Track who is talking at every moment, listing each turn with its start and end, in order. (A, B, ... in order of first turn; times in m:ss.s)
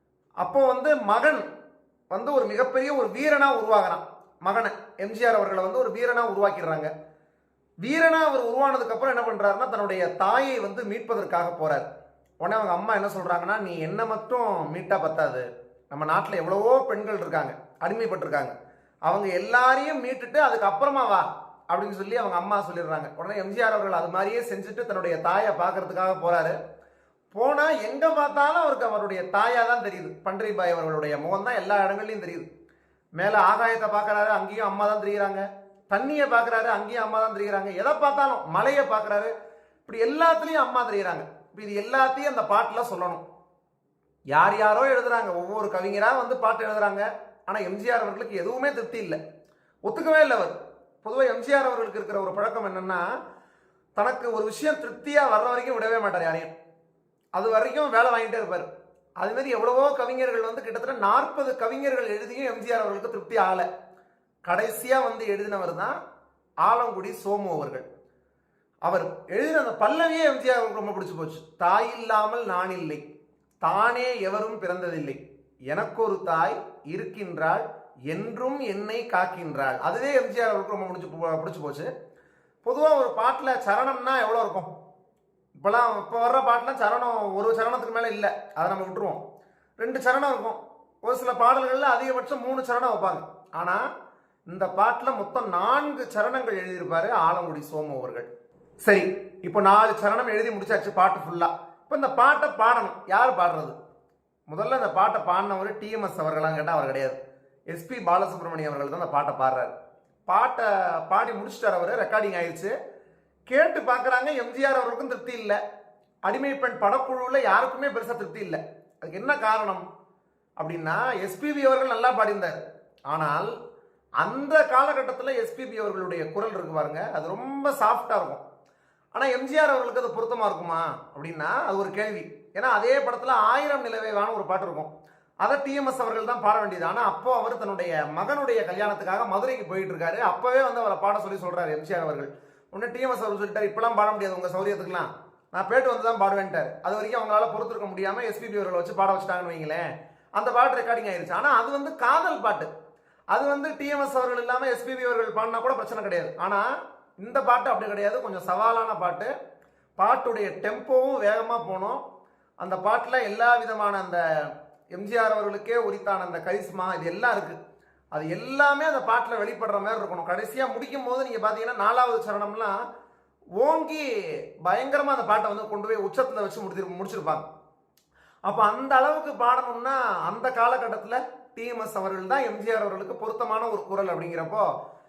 0:00.4-0:01.4 A
0:02.1-0:06.9 A
0:07.8-0:11.9 A
0:12.4-0:18.5 A
0:19.1-0:26.6 A
0:27.3-0:32.5 A
0:33.2-0:39.3 A
0:39.8-0:43.2 A
0:44.3-0:49.2 A
0:49.8-0:53.0 A
0:54.0-0:56.5 A
0:57.3-0:58.7 A
0:59.2-1:03.7 A
1:04.5-1:05.9 A
1:06.6-1:07.8 A
1:08.8-1:13.0 A
1:13.6-1:15.2 A
1:15.7-1:21.9 A
1:22.6-1:24.7 A
1:25.6-1:29.2 A
1:29.8-1:33.8 A
1:34.5-1:38.3 A
1:38.8-1:43.7 A
1:44.5-1:47.2 A
1:47.7-1:49.7 A
1:50.3-1:52.7 A
1:53.5-1:55.6 A
1:56.2-1:59.8 A
2:00.6-2:02.6 A
2:03.1-2:03.5 A
2:04.2-2:08.4 A
2:09.2-2:14.9 A
2:15.4-2:29.8 A
2:30.4-2:32.7 A
2:33.3-2:36.7 A
2:37.2-2:39.3 A
2:40.0-2:42.0 A
2:42.6-2:44.2 A
2:44.9-2:47.6 A
2:48.1-2:52.8 A
2:53.6-2:54.1 A
2:54.6-2:57.5 A
2:58.5-3:04.7 A